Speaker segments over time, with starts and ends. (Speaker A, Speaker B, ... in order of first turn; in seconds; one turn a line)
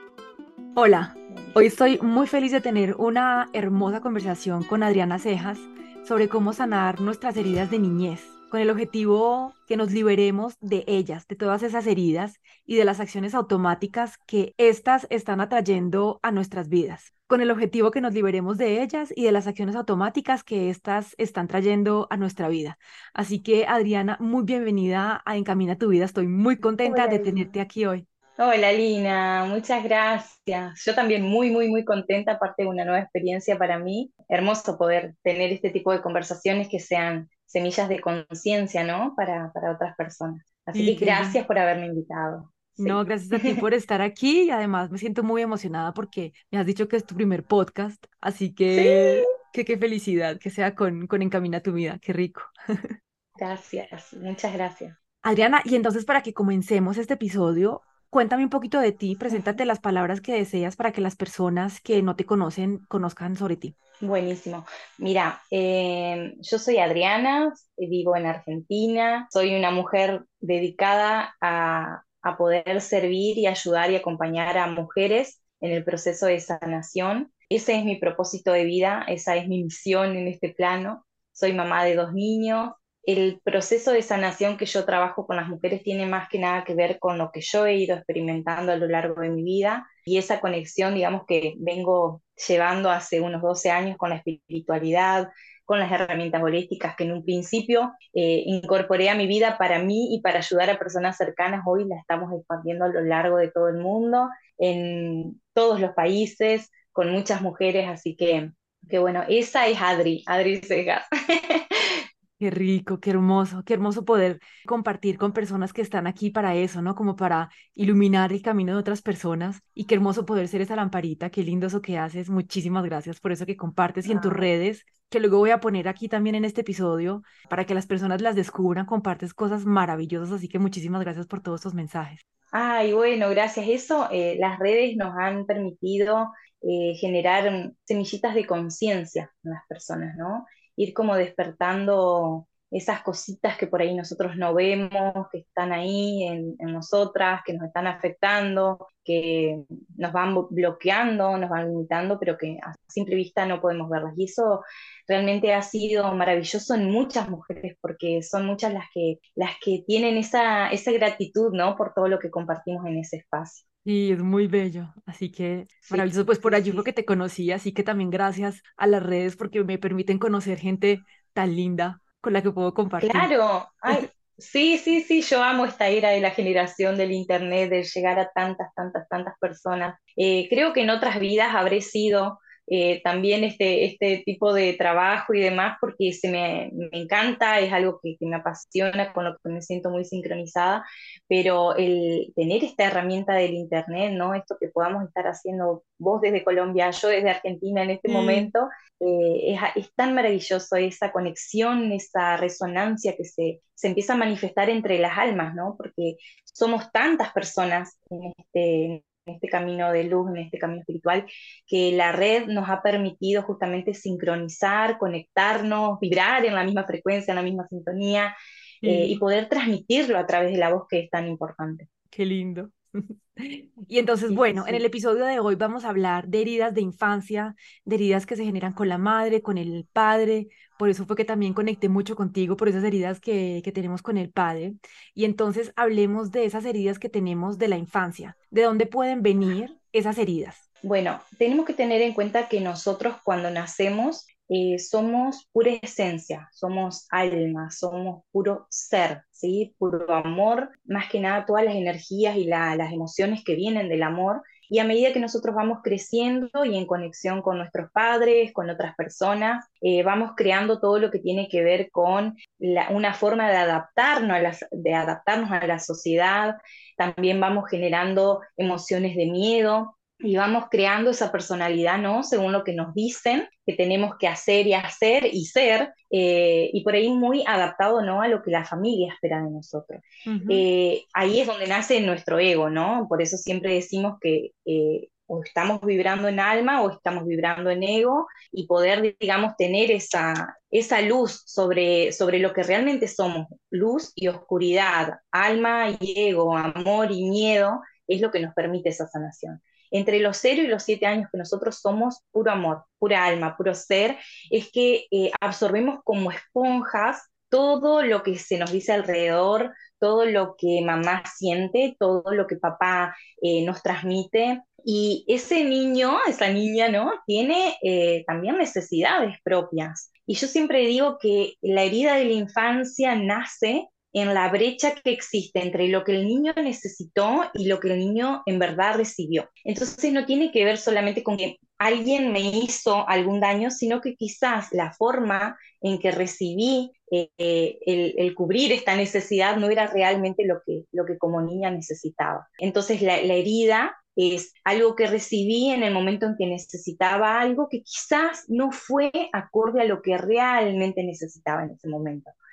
Speaker A: 0.8-28.1
Speaker B: 1.3-1.6
Speaker B: 26.8-27.5
Speaker B: 28.4-43.5
Speaker A: 40.8-41.4
Speaker A: 42.8-52.9
Speaker B: 48.7-49.3
Speaker B: 53.4-55.0
Speaker A: 55.2-63.7
Speaker B: 59.3-59.6
Speaker B: 64.0-112.0
Speaker A: 112.4-132.2
Speaker B: 124.1-124.5
Speaker B: 132.5-163.6
Speaker A: 163.8-173.3
Speaker B: 165.8-166.9
Speaker B: 173.0-221.9
Speaker A: 198.1-198.5
Speaker A: 218.8-219.2
Speaker A: 222.1-240.6
Speaker B: 224.3-224.8
Speaker B: 240.8-352.4
Speaker A: 280.3-280.7